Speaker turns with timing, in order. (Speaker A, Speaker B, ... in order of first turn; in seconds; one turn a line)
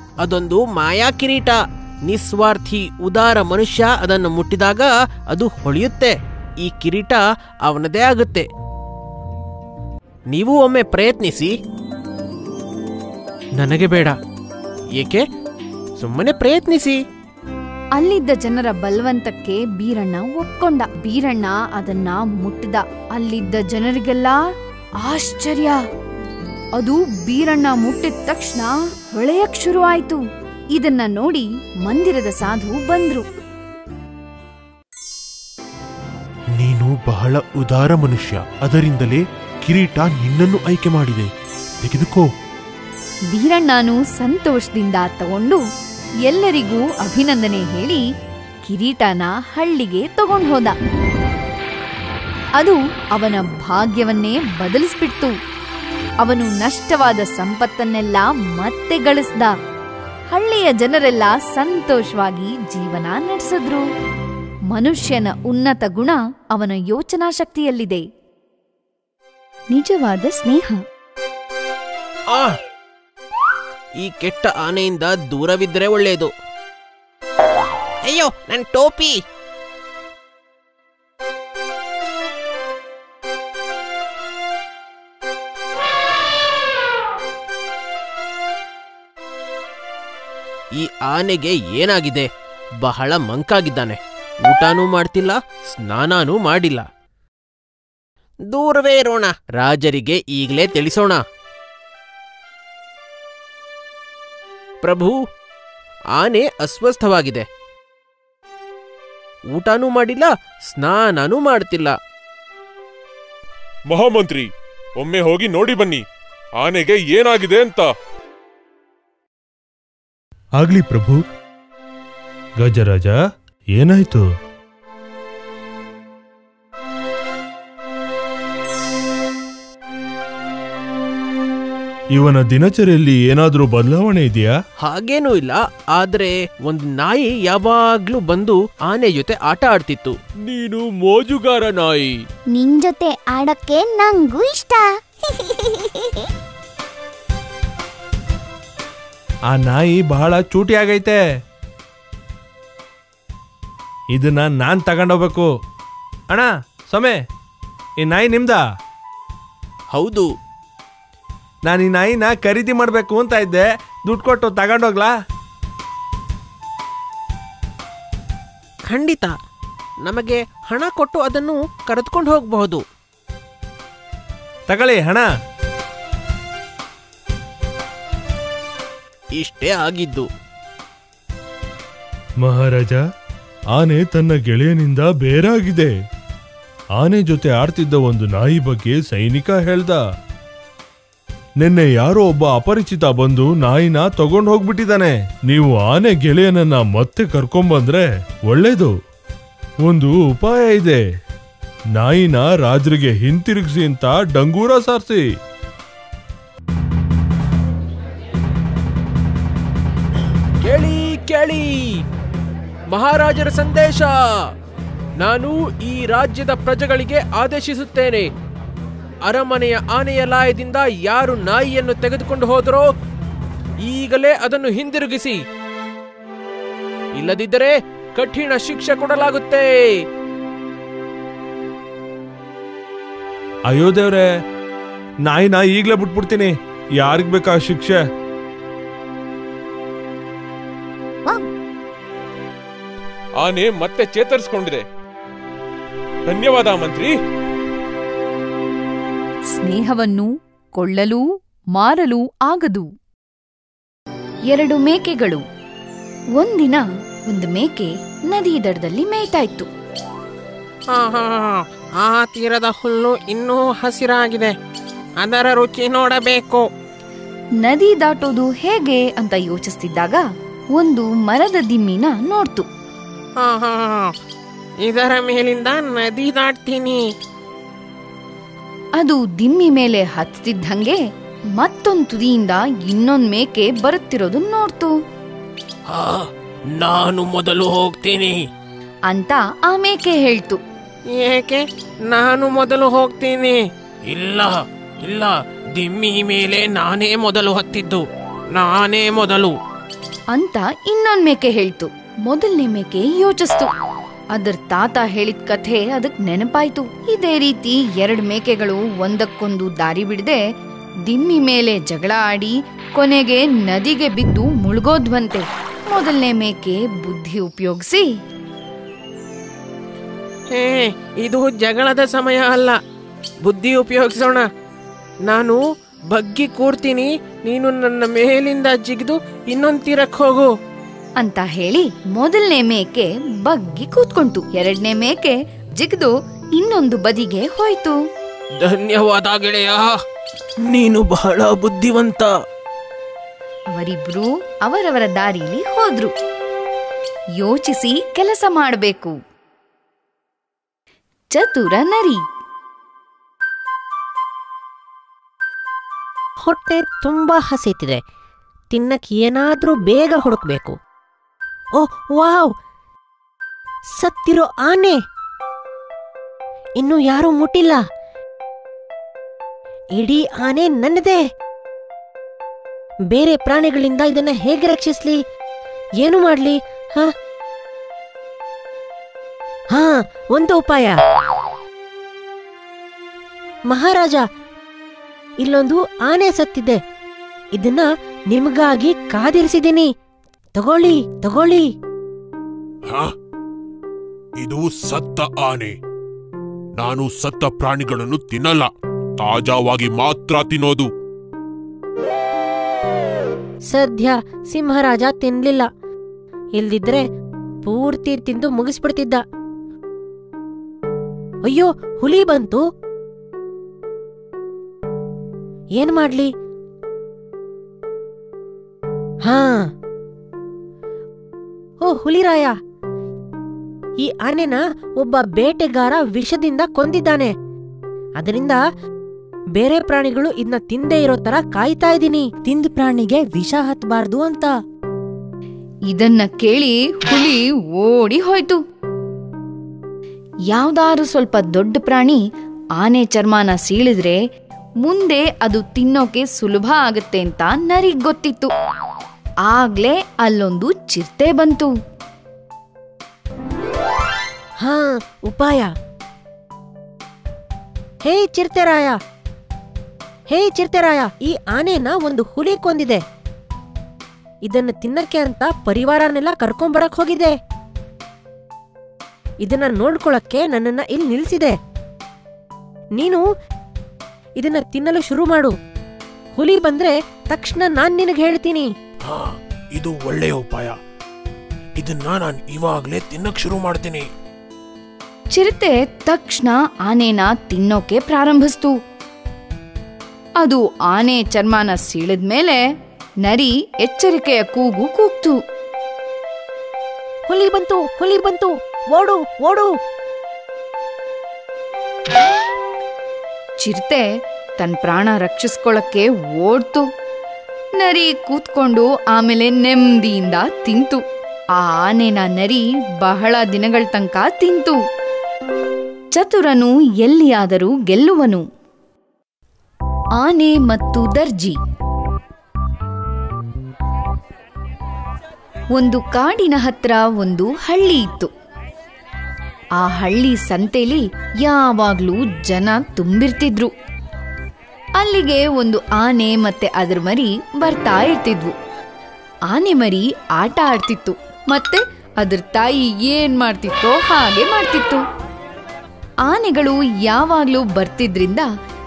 Speaker A: 0.2-8.4
Speaker A: 10.3-11.5
Speaker A: 13.6-14.2
Speaker A: 14.9-15.2
Speaker A: 16.0-17.0
Speaker B: 17.9-24.4
Speaker B: 25.0-25.8
Speaker B: 26.8-30.2
Speaker B: 30.7-33.2
Speaker C: 36.6-41.3
Speaker C: 41.8-42.2
Speaker B: 43.3-45.6
Speaker B: 46.3-48.0
Speaker B: 48.7-50.7
Speaker B: 52.6-55.3
Speaker B: 56.2-59.5
Speaker B: 60.3-63.8
Speaker B: 64.7-68.0
Speaker B: 69.7-70.8
Speaker A: 74.0-76.3
Speaker A: 78.0-79.1
Speaker A: 90.8-92.3
Speaker A: 92.8-96.8
Speaker A: 98.5-101.2
Speaker A: 104.8-105.1
Speaker A: 106.2-107.4
Speaker A: 109.5-111.9
Speaker C: 113.9-114.5
Speaker C: 115.0-116.0
Speaker C: 116.6-117.9
Speaker D: 120.6-121.2
Speaker D: 122.6-123.2
Speaker D: 123.8-124.2
Speaker D: 132.1-134.5
Speaker A: 134.8-140.2
Speaker C: 140.4-142.1
Speaker E: 142.5-146.2
Speaker D: 149.5-151.2
Speaker D: 154.1-155.5
Speaker D: 156.3-157.2
Speaker D: 158.0-158.6
Speaker A: 159.9-160.3
Speaker D: 161.7-165.1
Speaker F: 168.9-169.2
Speaker A: 170.2-172.8
Speaker F: 170.9-171.4
Speaker F: 172.0-172.5
Speaker D: 174.7-175.3
Speaker A: 179.3-180.3
Speaker D: 182.4-183.0
Speaker D: 183.7-185.9
Speaker D: 187.0-190.0
Speaker D: 191.6-198.9
Speaker D: 199.8-201.0
Speaker D: 201.9-205.2
Speaker A: 210.6-212.0
Speaker A: 212.9-214.2
Speaker A: 215.2-218.3
Speaker A: 219.2-222.9
Speaker A: 223.8-225.4
Speaker A: 227.2-230.0
Speaker D: 233.7-234.2
Speaker D: 235.2-238.0
Speaker C: 243.4-244.8
Speaker C: 246.3-247.1
Speaker B: 249.5-252.9
Speaker B: 254.5-255.4
Speaker B: 256.4-259.7
Speaker A: 260.9-264.5
Speaker A: 265.2-266.6
Speaker B: 267.6-272.7
Speaker A: 273.4-274.1
Speaker A: 274.8-277.0
Speaker B: 279.0-281.0
Speaker B: 281.5-284.9
Speaker A: 285.9-288.4
Speaker B: 289.1-290.6
Speaker A: 291.1-299.5
Speaker B: 300.3-303.7
Speaker B: 304.3-310.4
Speaker B: 311.1-318.1
Speaker A: 320.5-322.8
Speaker A: 323.4-324.4
Speaker A: 325.3-325.6
Speaker A: 326.1-330.5
Speaker B: 331.2-338.0
Speaker A: 338.6-339.9
Speaker A: 340.7-342.3
Speaker B: 343.7-346.1
Speaker B: 347.4-349.1
Speaker B: 351.3-352.2
Speaker F: 356.4-358.0
Speaker F: 358.7-360.7
Speaker F: 361.8-362.5
Speaker F: 364.0-365.0
Speaker F: 366.8-367.8
Speaker F: 369.9-371.2
Speaker F: 373.1-375.2
Speaker F: 376.0-377.1
Speaker F: 379.7-380.9
Speaker F: 383.7-384.2
Speaker F: 385.4-386.8
Speaker F: 387.6-389.9
Speaker F: 390.6-391.6
Speaker C: 394.4-395.7
Speaker C: 396.8-398.7
Speaker C: 399.2-400.9
Speaker F: 403.7-405.7
Speaker F: 406.6-407.0
Speaker F: 407.6-409.2
Speaker F: 411.4-412.6
Speaker F: 415.8-416.3
Speaker F: 419.2-419.7
Speaker F: 421.8-422.5
Speaker F: 424.0-427.3
Speaker F: 428.2-428.6
Speaker F: 429.6-434.5
Speaker B: 435.9-438.6
Speaker B: 440.5-442.2
Speaker B: 442.8-444.2
Speaker B: 444.8-448.5
Speaker B: 449.5-451.7
Speaker F: 454.6-455.7
Speaker F: 458.0-459.0
Speaker F: 460.3-463.0
Speaker F: 464.4-467.3
Speaker F: 469.4-471.5
Speaker F: 473.0-473.2
Speaker F: 474.4-475.5
Speaker F: 476.4-478.7
Speaker B: 485.3-488.7
Speaker B: 490.4-492.6
Speaker B: 493.2-495.4
Speaker F: 497.3-499.7
Speaker B: 503.6-504.0
Speaker B: 504.6-506.9
Speaker B: 507.8-511.0
Speaker B: 511.6-514.8
Speaker B: 516.1-518.4
Speaker B: 520.2-521.6
Speaker B: 525.7-528.3
Speaker B: 529.8-533.7
Speaker B: 535.0-538.5
Speaker B: 539.5-545.0
Speaker B: 546.2-548.5